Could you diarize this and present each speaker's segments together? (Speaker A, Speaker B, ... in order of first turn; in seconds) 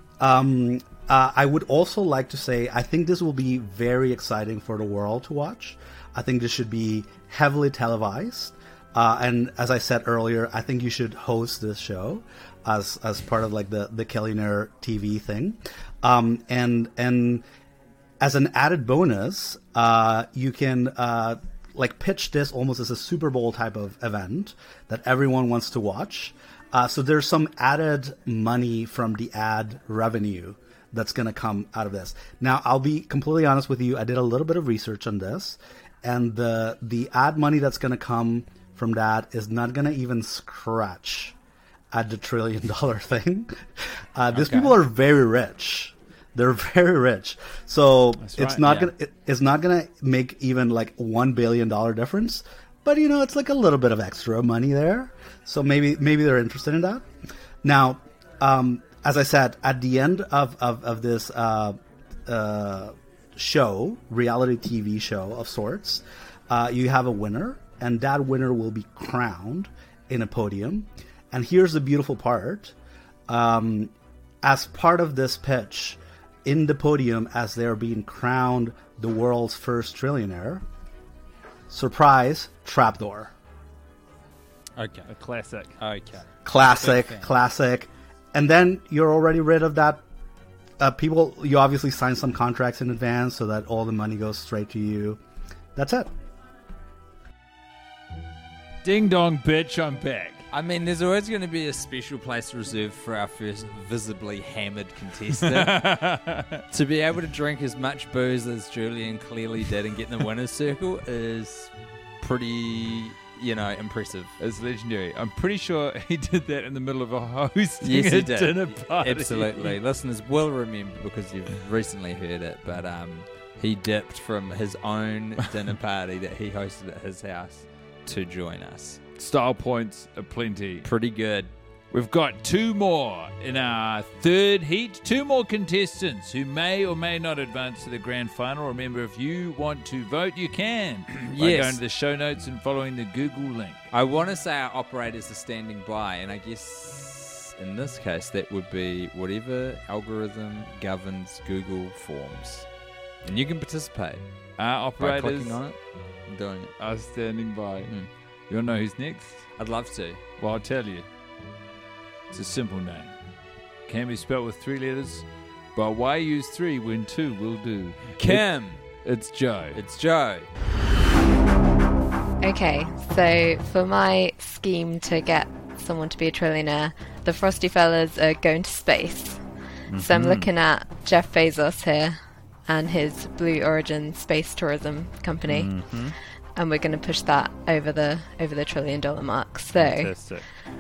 Speaker A: 0.2-17.4, 18.2-41.3, 41.9-43.5, 44.1-57.0, 57.6-72.7, 73.3-80.6, 81.7-83.3, 86.5-90.0, 90.8-95.2, 95.8-96.1
Speaker B: 44.4-44.7, 84.8-85.1, 85.8-87.3, 100.5-105.8, 106.7-114.4, 117.8-129.0, 130.8-131.5, 141.2-141.8, 143.9-152.7, 153.2-156.8, 157.9-158.1, 159.6-160.2, 168.2-169.1, 169.7-170.5
Speaker C: 48.2-48.8, 85.1-85.8, 98.8-100.5, 105.4-106.6, 114.4-119.8, 129.2-130.9, 131.9-143.9, 154.6-155.7, 156.8-159.7, 160.4-161.1, 162.3-163.2, 163.9-169.8, 179.9-180.5, 185.4-186.2, 189.7-190.5
Speaker D: 172.4-179.4, 180.0-185.8, 186.6-190.2